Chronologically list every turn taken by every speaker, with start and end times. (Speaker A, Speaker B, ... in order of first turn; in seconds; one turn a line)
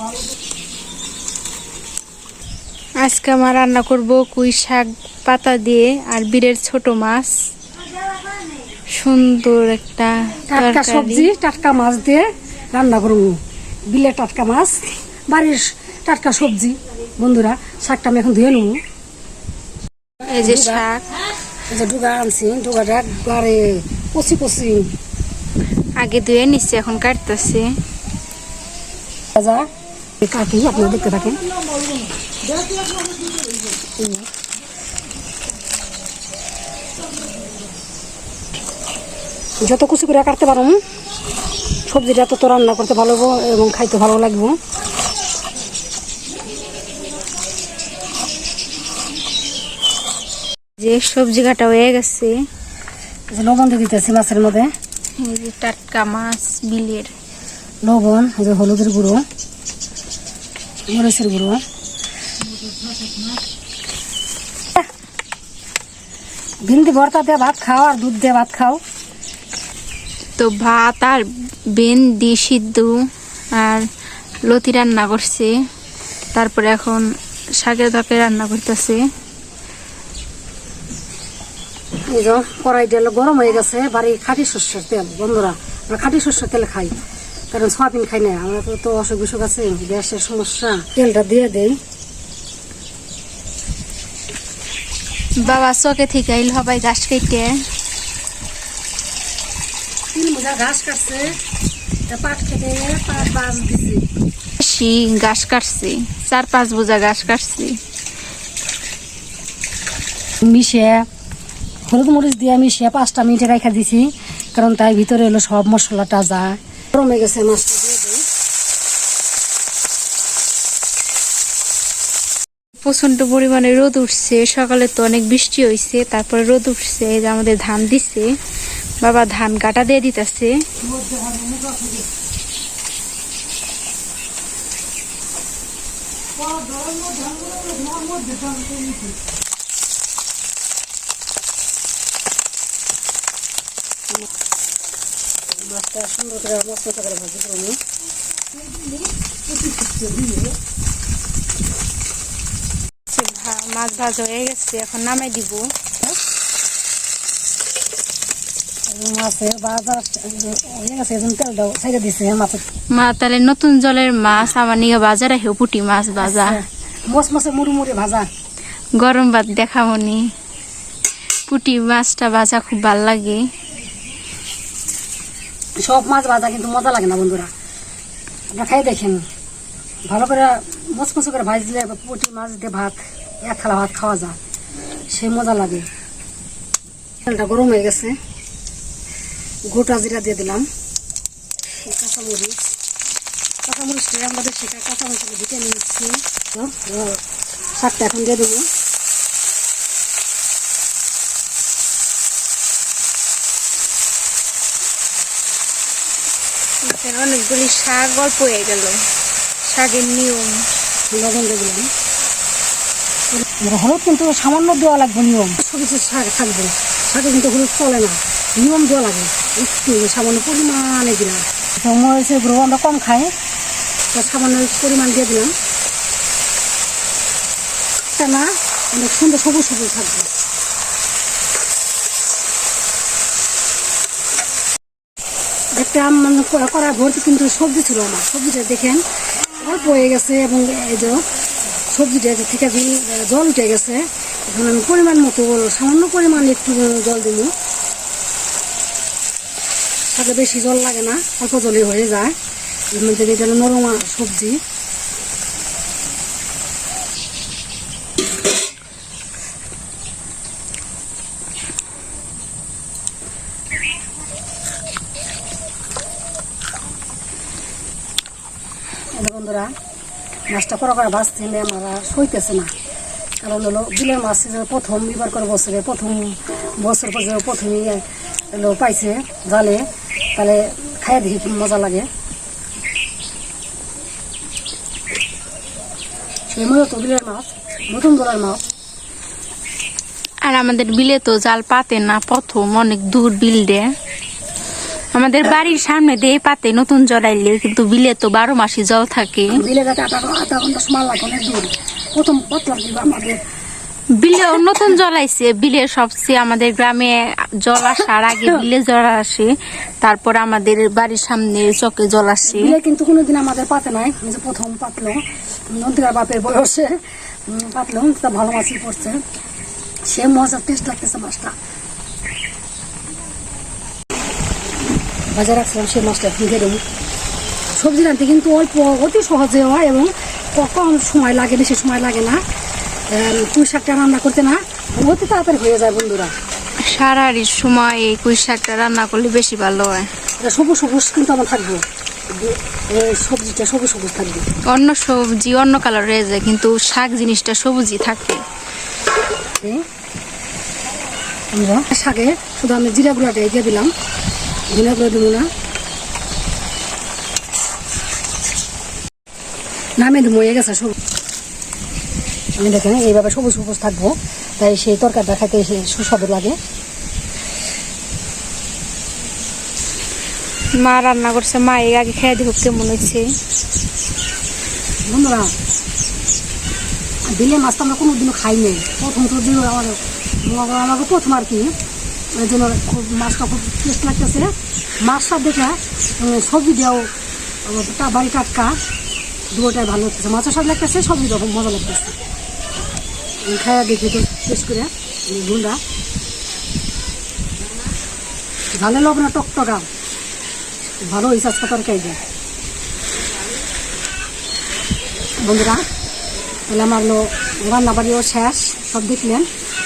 Speaker A: 3.0-7.3
Speaker A: 8.9-11.3
Speaker B: 10.5-18.8
Speaker A: 20.2-21.1
Speaker B: 20.4-20.9
Speaker B: 21.7-24.9
Speaker A: 26.0-27.6
Speaker B: 29.3-29.6
Speaker B: 30.2-31.4
Speaker B: 33.8-34.2
Speaker B: 39.6-40.8
Speaker B: 41.9-44.5
Speaker A: 50.8-52.4
Speaker B: 53.3-54.7
Speaker A: 55.2-57.1
Speaker B: 57.8-59.2
Speaker B: 60.9-61.6
Speaker B: 66.6-68.8
Speaker A: 70.4-73.8
Speaker A: 74.5-75.5
Speaker A: 76.3-77.0
Speaker A: 77.5-79.0
Speaker B: 82.1-87.0
Speaker B: 87.5-91.8
Speaker A: 95.4-97.5
Speaker B: 100.1-101.4
Speaker B: 102.1-104.0
Speaker A: 104.6-107.8
Speaker B: 110.4-111.0
Speaker B: 111.8-118.2
Speaker A: 122.7-128.3
Speaker A: 129.0-130.5
Speaker B: 145.5-147.8
Speaker A: 153.1-155.7
Speaker B: 158.9-162.6
Speaker A: 162.9-166.6
Speaker B: 166.2-168.3
Speaker A: 169.0-170.2
Speaker A: 171.5-173.4
Speaker B: 175.8-177.5
Speaker B: 178.5-179.2
Speaker B: 180.1-184.4
Speaker B: 185.1-185.9
Speaker B: 187.2-188.2
Speaker B: 189.7-190.7
Speaker B: 191.8-192.7
Speaker B: 193.7-198.7
Speaker A: 206.8-209.0
Speaker A: 209.7-210.6
Speaker B: 211.1-211.9
Speaker B: 213.3-223.3
Speaker B: 224.1-225.5
Speaker B: 228.1-230.3
Speaker B: 235.8-239.0
Speaker B: 239.6-241.2
Speaker B: 241.9-247.5
Speaker B: 250.1-252.3
Speaker B: 252.9-254.6
Speaker B: 269.1-269.7
Speaker B: 270.5-272.7
Speaker B: 273.4-282.1
Speaker B: 286.5-288.6
Speaker A: 290.4-293.9
Speaker A: 295.1-299.6
Speaker B: 299.5-303.4
Speaker A: 304.2-312.8
Speaker B: 308.3-308.6
Speaker B: 312.4-319.2
Speaker B: 320.1-321.5
Speaker B: 325.3-326.8
Speaker B: 327.7-332.4
Speaker B: 333.1-336.3
Speaker A: 336.8-340.1
Speaker B: 340.4-344.4
Speaker A: 344.6-348.4
Speaker B: 351.5-353.9
Speaker B: 354.7-355.5
Speaker B: 360.0-360.9
Speaker B: 362.6-366.6
Speaker A: 370.8-373.2
Speaker B: 375.1-375.5
Speaker B: 377.3-381.7
Speaker B: 382.3-384.5
Speaker B: 385.0-387.1
Speaker B: 387.6-388.8
Speaker B: 389.5-392.2
Speaker B: 393.4-395.8
Speaker B: 398.7-399.9
Speaker B: 401.0-402.2
Speaker B: 405.4-405.8
Speaker B: 406.7-409.5